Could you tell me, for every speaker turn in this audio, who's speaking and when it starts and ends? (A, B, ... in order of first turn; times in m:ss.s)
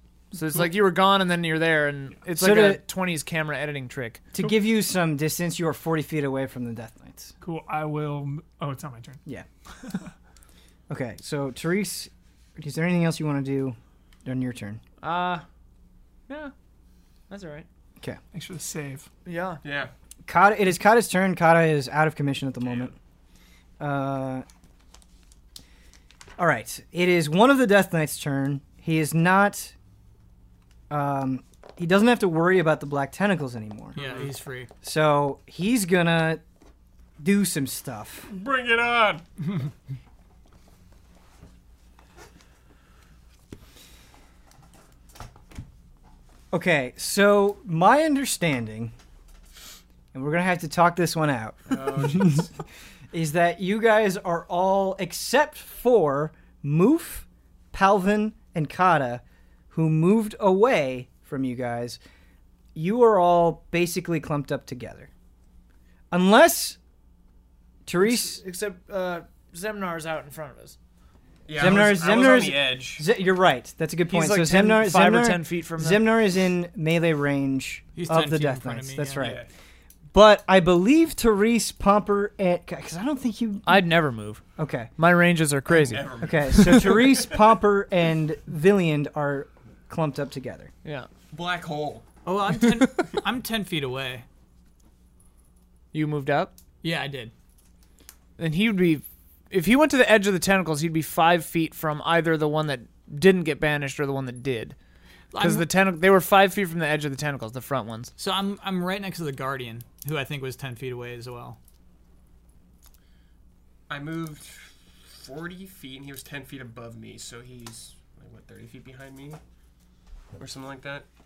0:00.3-0:04.3 A
0:02.4-0:02.8 B
0:04.3-0:07.3 B
0:07.4-0:09.2 C
0:10.9-0:14.8 B
0:15.0-0:15.4 A
0:17.3-0:17.7 A
0:18.3-0:19.1 C
0:19.2-0:19.6 A
0:19.6-0:19.9 D
0:20.3-0:23.0 B
0:23.8-0:24.4 B
0:26.4-0:29.7 B
0:30.9-0:34.0 B
0:34.0-0:34.7 E
0:34.0-0:34.3 D
0:34.8-0:36.4 B
0:37.2-0:38.3 B
0:38.3-0:39.3 D
0:46.5-0:48.9 B
0:50.1-0:52.5 B
0:51.7-0:52.5 D
0:53.1-1:02.0 B
1:02.8-1:05.1 B
1:06.1-1:06.8 B
1:07.9-1:08.4 B
1:08.0-1:10.8 A
1:11.5-1:13.0 D
1:11.6-1:19.4 B
1:14.1-1:16.1 A
1:18.0-1:19.4 E
1:19.2-1:19.5 D
1:20.1-1:23.8 B
1:23.6-1:24.4 A
1:24.6-1:24.9 B
1:25.0-1:27.1 A
1:25.7-1:27.4 D
1:26.2-1:30.7 B
1:31.3-1:32.0 D
1:32.2-1:34.3 E
1:35.9-1:36.5 A
1:36.8-1:37.3 E
1:38.4-1:44.8 A
1:45.3-1:45.7 E
1:45.4-1:48.1 A
1:48.2-1:51.6 E
1:53.9-1:59.4 D
2:00.4-2:01.1 D